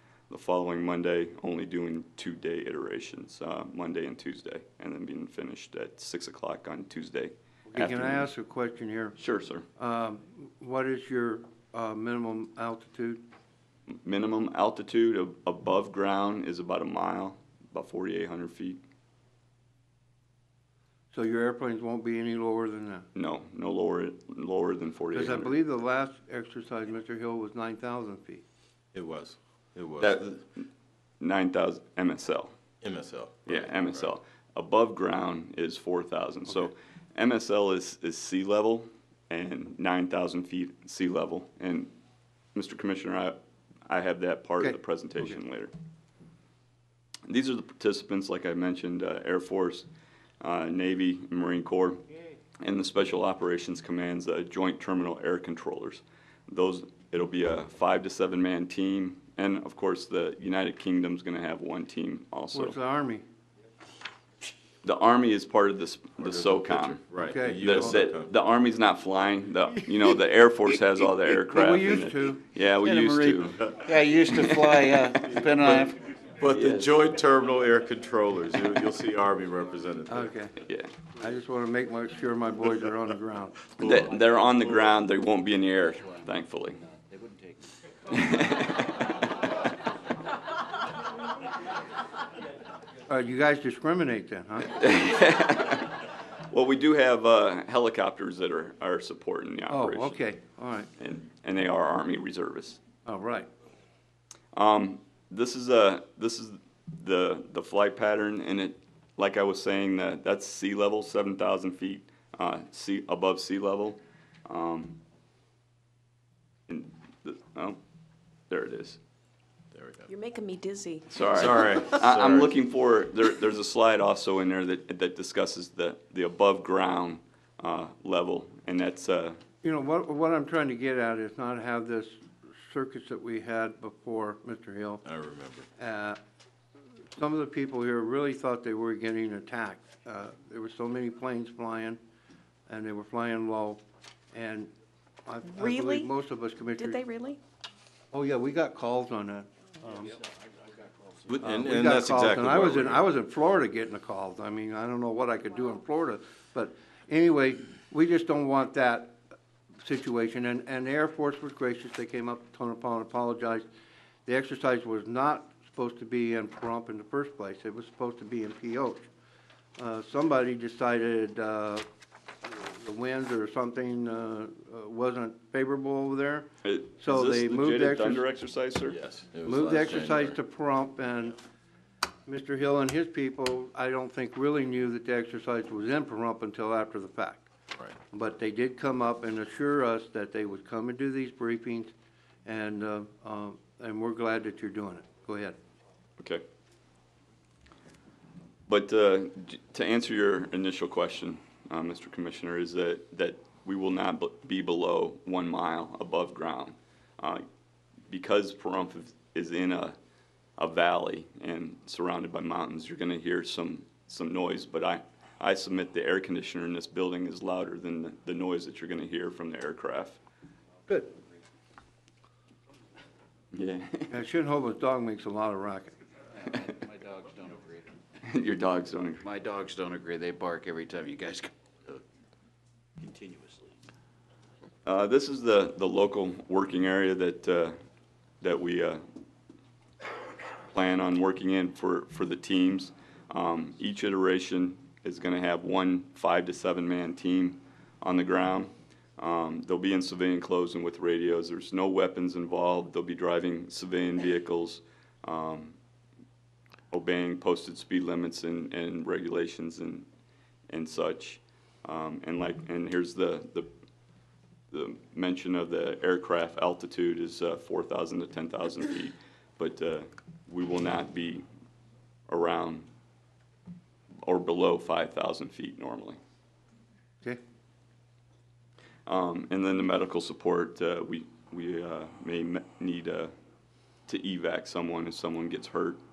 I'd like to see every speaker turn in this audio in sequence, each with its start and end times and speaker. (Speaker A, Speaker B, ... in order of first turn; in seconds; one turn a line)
Speaker A: 0.3-8.3
Speaker B: 7.7-9.2
Speaker A: 9.2-9.6
Speaker B: 9.8-13.2
Speaker A: 13.9-18.8
Speaker B: 21.1-23.0
Speaker A: 23.1-25.6
Speaker B: 25.1-28.4
Speaker C: 28.9-30.2
Speaker A: 30.0-30.7
Speaker A: 31.2-32.5
Speaker C: 32.8-34.1
Speaker A: 33.5-41.9
Speaker A: 42.5-45.7
Speaker B: 44.6-45.4
Speaker A: 47.3-49.9
Speaker A: 50.4-52.0
Speaker A: 52.6-62.8
Speaker B: 62.5-63.2
Speaker A: 64.8-73.7
Speaker C: 66.2-68.3
Speaker B: 67.2-67.9
Speaker B: 71.5-72.4
Speaker D: 72.9-76.0
Speaker C: 73.5-73.8
Speaker A: 74.3-75.9
Speaker C: 75.3-80.3
Speaker A: 76.4-76.9
Speaker B: 80.1-80.5
Speaker A: 80.6-80.9
Speaker B: 81.2-83.6
Speaker A: 83.8-86.8
Speaker C: 83.8-84.1
Speaker D: 86.9-87.6
Speaker A: 88.1-88.8
Speaker B: 93.1-94.7
Speaker A: 94.7-100.2
Speaker B: 99.7-100.9
Speaker A: 101.0-102.8
Speaker B: 103.0-103.5
Speaker A: 104.5-115.0
Speaker A: 116.7-117.8
Speaker A: 118.5-119.0
Speaker C: 119.7-120.1
Speaker E: 120.1-121.1
Speaker A: 121.1-129.4
Speaker C: 121.2-122.5
Speaker B: 129.6-135.0
Speaker C: 135.0-135.7
Speaker B: 135.8-136.2
Speaker B: 137.1-142.0
Speaker B: 142.7-143.8
Speaker B: 144.3-144.7
Speaker B: 145.2-147.0
Speaker E: 145.4-146.1
Speaker E: 146.8-147.4
Speaker B: 148.1-150.2
Speaker C: 151.2-153.1
Speaker B: 151.4-159.2
Speaker B: 159.8-163.7
Speaker B: 164.2-169.1
Speaker B: 169.8-171.8
Speaker B: 172.4-176.5
Speaker A: 176.6-179.0
Speaker B: 177.0-178.2
Speaker C: 178.9-180.4
Speaker B: 179.4-181.4
Speaker B: 182.3-187.5
Speaker B: 188.1-191.9
Speaker B: 192.4-195.6
Speaker A: 196.2-196.4
Speaker A: 198.7-207.4
Speaker A: 208.1-209.9
Speaker A: 210.6-220.2
Speaker A: 223.5-224.1
Speaker B: 224.1-225.9
Speaker D: 226.4-227.9
Speaker A: 228.2-229.2
Speaker D: 229.2-232.0
Speaker D: 233.0-233.7
Speaker A: 234.8-237.7
Speaker A: 238.4-239.0
Speaker A: 240.7-255.8
Speaker A: 256.9-260.1
Speaker A: 260.7-263.7
Speaker A: 264.7-271.4
Speaker A: 272.3-272.9
Speaker A: 274.2-276.2
Speaker A: 279.1-283.3
Speaker A: 284.1-286.0